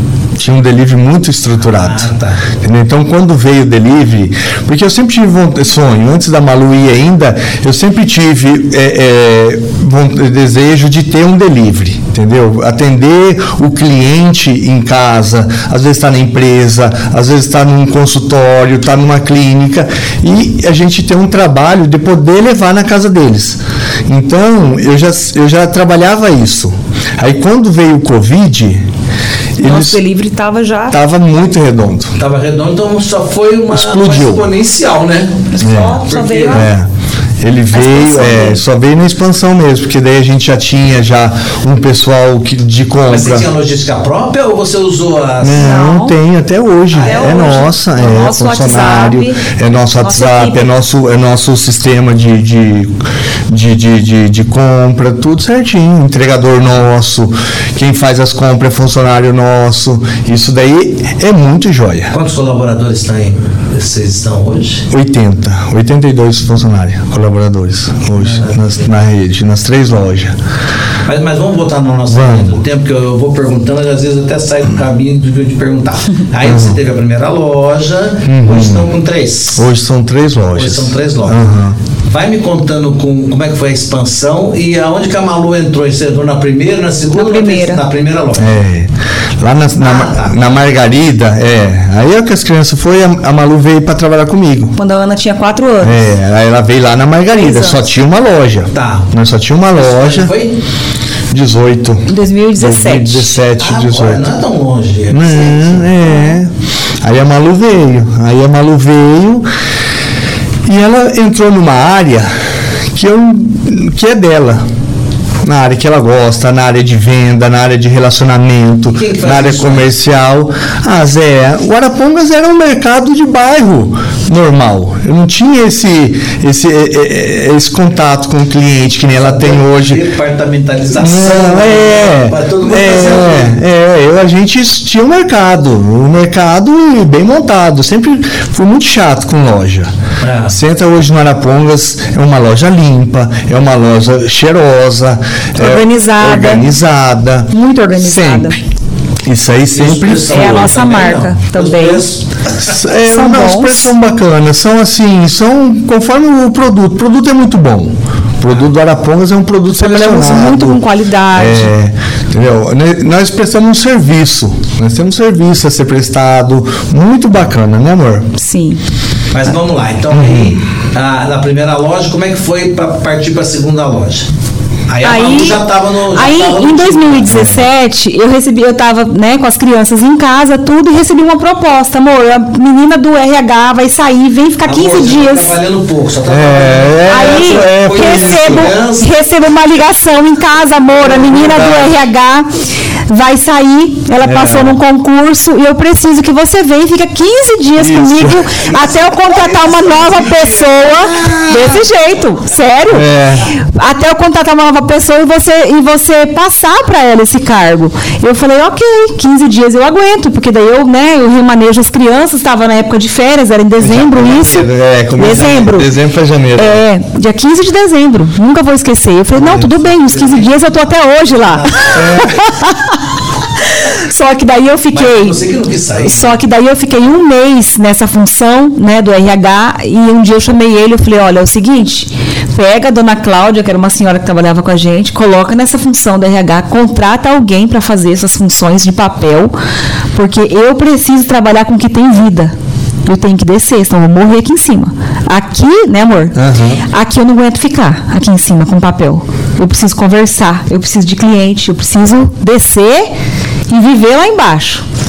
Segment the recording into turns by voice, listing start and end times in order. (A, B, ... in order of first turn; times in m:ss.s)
0:00.4-0:02.1 A
0:01.7-0:02.4 B
0:02.6-0:28.8 A
0:29.6-0:30.0 A
0:29.6-0:31.0 C
0:30.9-0:32.2 A
0:32.2-0:36.7 B
0:33.7-0:34.5 A
0:35.5-0:36.7 C
0:35.6-0:36.9 A
0:37.4-0:43.5 A
0:37.7-0:38.6 C
0:43.1-0:45.8 B
0:45.4-0:53.0 A
0:45.6-0:46.2 C
0:46.9-0:47.5 B
0:47.0-0:49.4 C
0:50.0-0:50.7 C
0:53.5-1:02.1 A
1:02.1-1:04.9 B
1:04.9-1:10.4 A
1:08.2-1:08.9 B
1:11.1-1:19.7 B
1:12.1-1:12.6 A
1:16.4-1:16.8 A
1:18.3-1:18.9 A
1:19.6-1:21.8 A
1:20.5-1:21.5 B
1:22.1-1:28.6 B
1:27.2-1:27.8 C
1:28.4-1:34.8 A
1:29.8-1:30.5 B
1:34.8-1:36.1 C
1:35.8-1:40.3 A
1:37.3-1:37.8 C
1:38.7-1:39.1 B
1:39.7-1:40.6 B
1:41.3-1:44.3 A
1:42.1-1:43.3 C
1:43.6-1:46.0 B
1:45.1-1:49.4 A
1:46.1-1:46.4 C
1:50.7-1:52.3 A
1:52.9-1:54.6 A
1:55.4-2:10.0 A
1:58.9-1:59.9 B
2:09.2-2:13.6 B
2:11.0-2:19.9 A
2:20.2-2:20.6 B
2:20.5-2:28.6 A
2:25.6-2:26.6 C
2:27.5-2:28.6 C
2:29.2-2:30.8 A
2:29.7-2:32.8 B
2:30.3-2:32.0 C
2:32.6-2:40.8 A
2:33.1-2:33.9 C
2:39.8-2:41.7 C
2:41.3-2:48.3 A
2:48.4-2:48.8 C
2:49.3-2:54.3 B
2:50.1-2:50.6 A
2:54.9-2:57.5 B
2:55.0-3:05.6 C
2:57.3-2:57.6 A
3:04.6-3:09.1 B
3:06.3-3:08.7 A
3:07.1-3:12.5 C
3:11.0-3:12.0 A
3:13.1-3:36.0 C
3:14.2-3:14.8 A
3:17.8-3:18.4 A
3:18.6-3:21.4 B
3:21.2-3:21.7 A
3:22.9-3:23.5 A
3:33.8-3:36.8 A
3:36.6-3:43.0 C
3:39.4-3:40.8 B
3:41.3-3:42.4 B
3:41.9-3:42.4 A
3:43.7-3:45.4 C
3:44.9-3:46.4 B
3:46.0-3:59.6 C
4:00.2-4:02.5 C
4:03.1-4:06.4 C
4:06.4-4:06.8 A
4:06.9-4:13.1 C
4:13.7-4:14.8 C